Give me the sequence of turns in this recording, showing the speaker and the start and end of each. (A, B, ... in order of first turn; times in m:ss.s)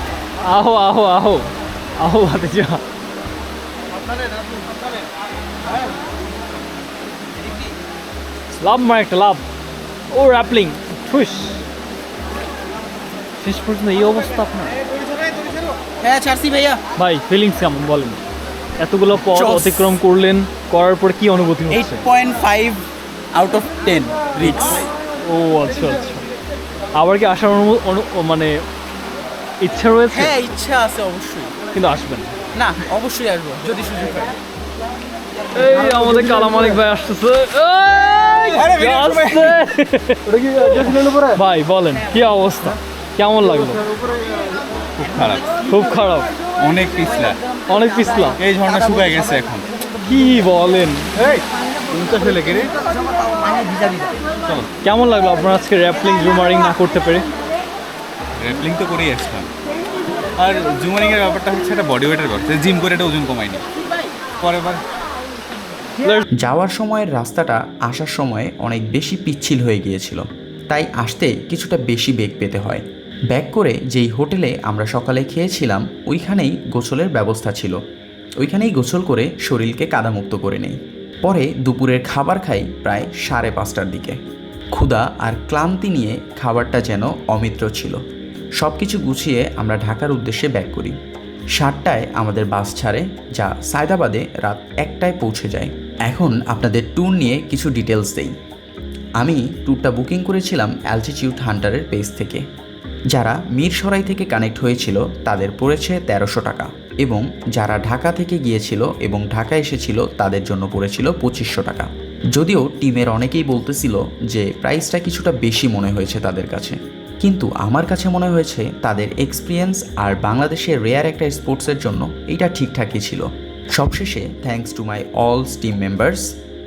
0:00.4-0:01.4 A
0:02.0-0:02.8 A
0:08.6-0:09.4 A
0:10.1-0:11.6 A
0:13.4-0:14.8 A
0:16.0-0:16.8 B
0:17.0-0:18.2 A
0:18.8-0:22.0 A
0:19.2-0:20.0 B
0:21.7-0:24.9 B
0:24.4-0:26.2 A
0:27.0-0:28.6 A
0:29.6-0:30.4 A
0:30.1-0:31.5 B
0:31.7-0:32.3 A
0:32.6-0:34.3 B
0:35.6-0:43.8 A
0:38.6-0:39.6 C
0:45.0-0:45.6 C
0:45.6-0:46.3 A
0:46.6-0:47.6 C
0:47.7-0:48.4 A
0:48.4-0:49.7 C
0:50.0-0:51.2 A
0:51.2-0:52.7 C
0:54.8-0:57.3 A
0:58.4-0:59.5 C
1:00.4-1:03.7 C
1:04.4-1:04.8 C
1:06.3-1:17.8 D
1:18.4-1:24.2 D
1:24.7-1:28.0 D
1:28.6-1:31.0 D
1:31.5-1:38.3 D
1:39.2-1:42.4 D
1:43.1-2:06.3 D